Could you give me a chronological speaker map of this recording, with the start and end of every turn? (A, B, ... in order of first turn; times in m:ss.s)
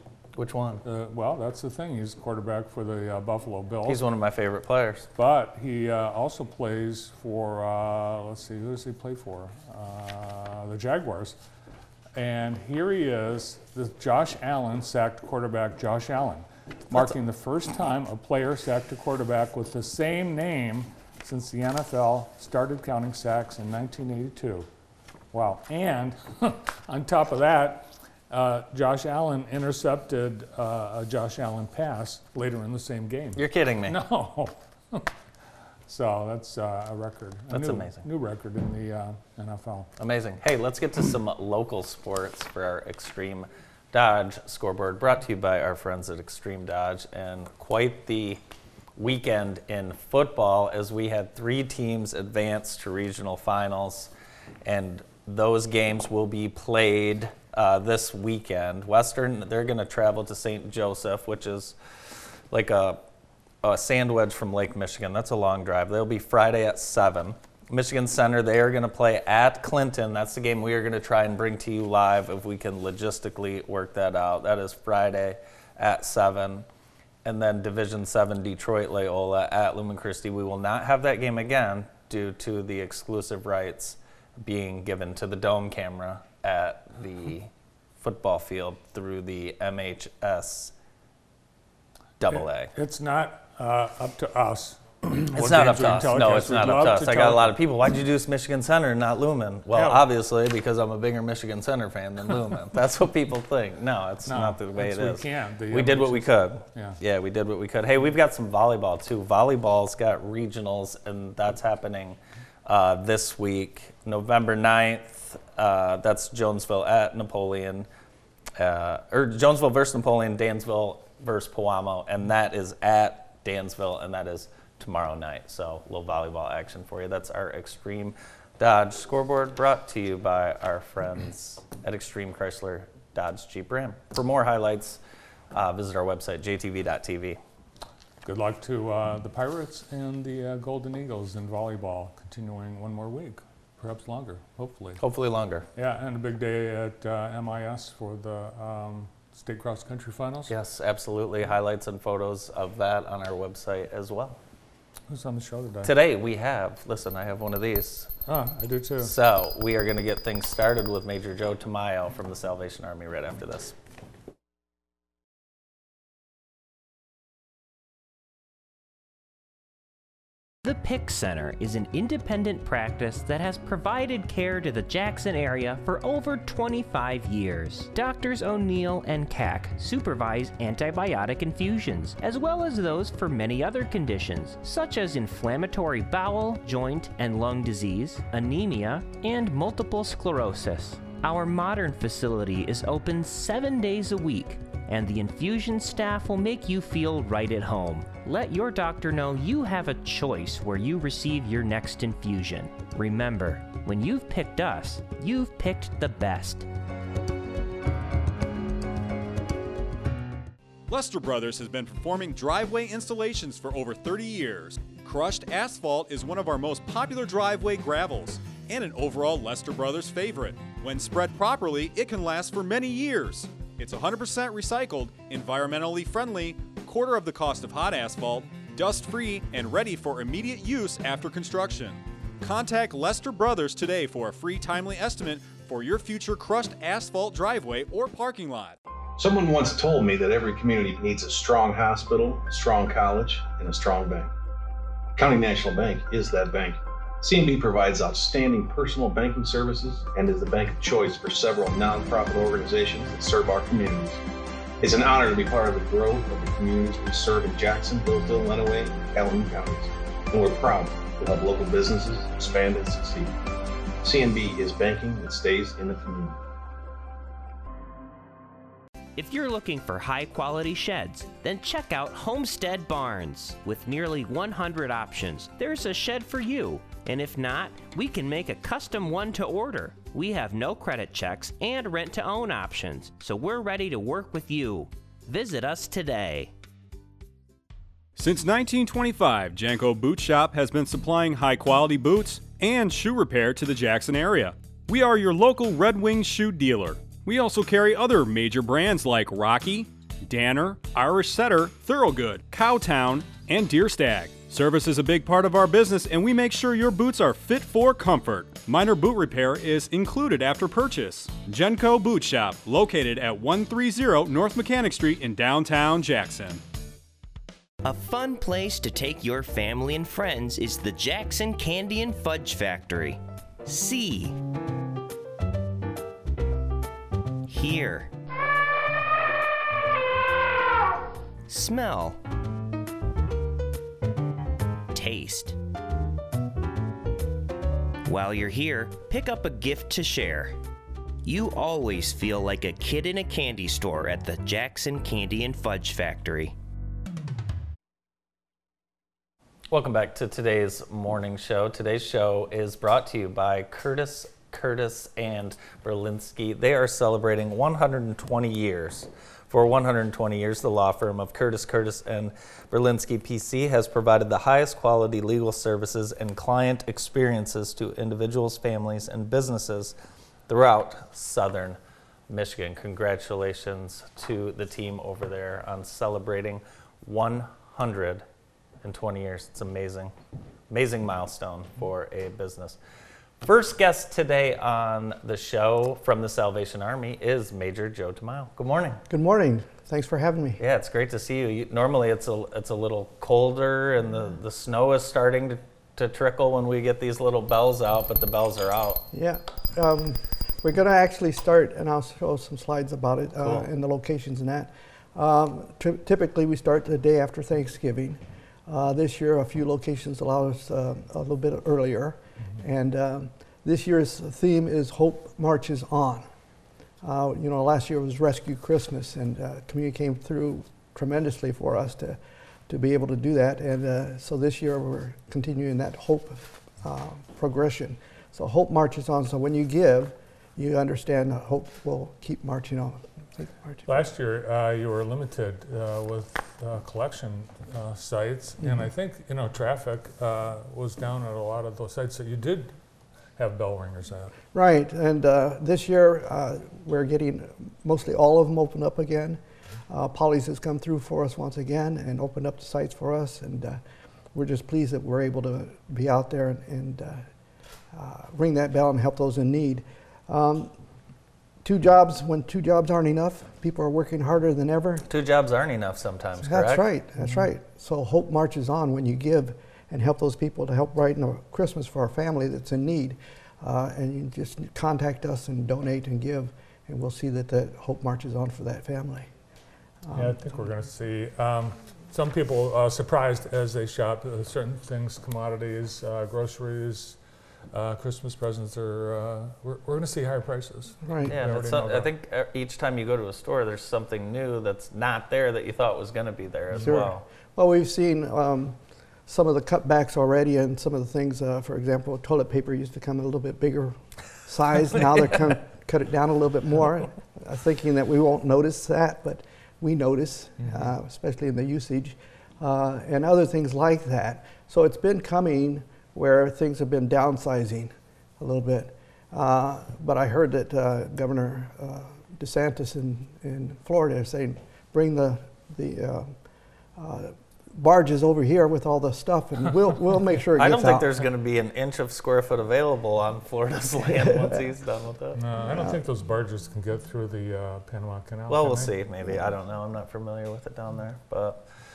0:00.4-0:00.8 A
0:00.8-0:04.0 B
0:03.8-0:05.1 A
0:05.2-0:11.4 B
0:12.2-0:24.7 B
0:25.3-0:35.1 B
0:33.4-0:34.0 A
0:35.9-0:39.9 B
0:37.5-0:38.1 A
0:40.0-0:48.4 A
0:49.0-0:54.1 A
0:54.6-1:01.8 A
1:02.5-1:03.0 A
1:03.6-1:16.7 A
1:17.2-1:30.7 A
1:32.2-1:32.7 A
1:32.3-1:37.6 B
1:35.4-1:57.9 A
1:39.7-1:40.1 B
1:44.3-1:47.0 B
1:58.6-2:15.0 A
2:15.5-2:17.4 A
2:18.2-2:25.0 B
2:25.0-2:25.7 A
2:25.8-2:30.5 B
2:30.5-2:34.4 A
2:35.1-2:35.9 B
2:35.8-2:38.1 A
2:38.3-2:39.1 B
2:39.0-2:43.8 A
2:50.6-3:26.7 C
3:30.9-3:58.8 D
3:59.2-4:04.3 E
4:05.2-4:14.2 E
4:14.8-4:23.3 E
4:24.0-4:26.4 E
4:29.2-4:46.5 C
4:48.2-5:16.6 D
5:17.8-5:24.4 C
5:27.5-5:28.1 C
5:31.5-5:32.2 C
5:34.9-5:35.6 C
5:38.1-5:40.6 C
5:41.2-5:46.5 C
5:49.7-6:10.0 A
6:10.5-6:11.8 A
6:12.3-6:18.2 A
6:18.8-6:20.1 A
6:20.7-6:22.8 A
6:23.4-6:29.0 A
6:29.1-6:30.6 F
6:30.6-6:39.0 A
6:39.1-6:56.3 F
6:43.4-6:43.7 A
6:57.0-7:14.1 F
7:13.9-7:22.8 B
7:18.6-7:18.9 F
7:23.4-7:24.3 B
7:24.5-7:33.8 F
7:34.3-7:37.3 F
7:37.9-7:40.7 F
7:41.6-7:45.0 F
7:45.1-7:46.8 A
7:46.4-7:59.3 F
8:00.0-8:00.4 F
8:00.1-8:07.2 B
8:07.7-8:12.1 B
8:11.0-8:11.3 F
8:11.3-8:17.2 A
8:16.7-8:17.0 B
8:16.8-8:46.4 F
8:47.0-8:51.1 F
8:50.6-8:55.4 A
8:54.0-8:54.7 F
8:55.4-8:58.9 B
8:55.6-8:56.0 F
8:58.5-9:01.6 A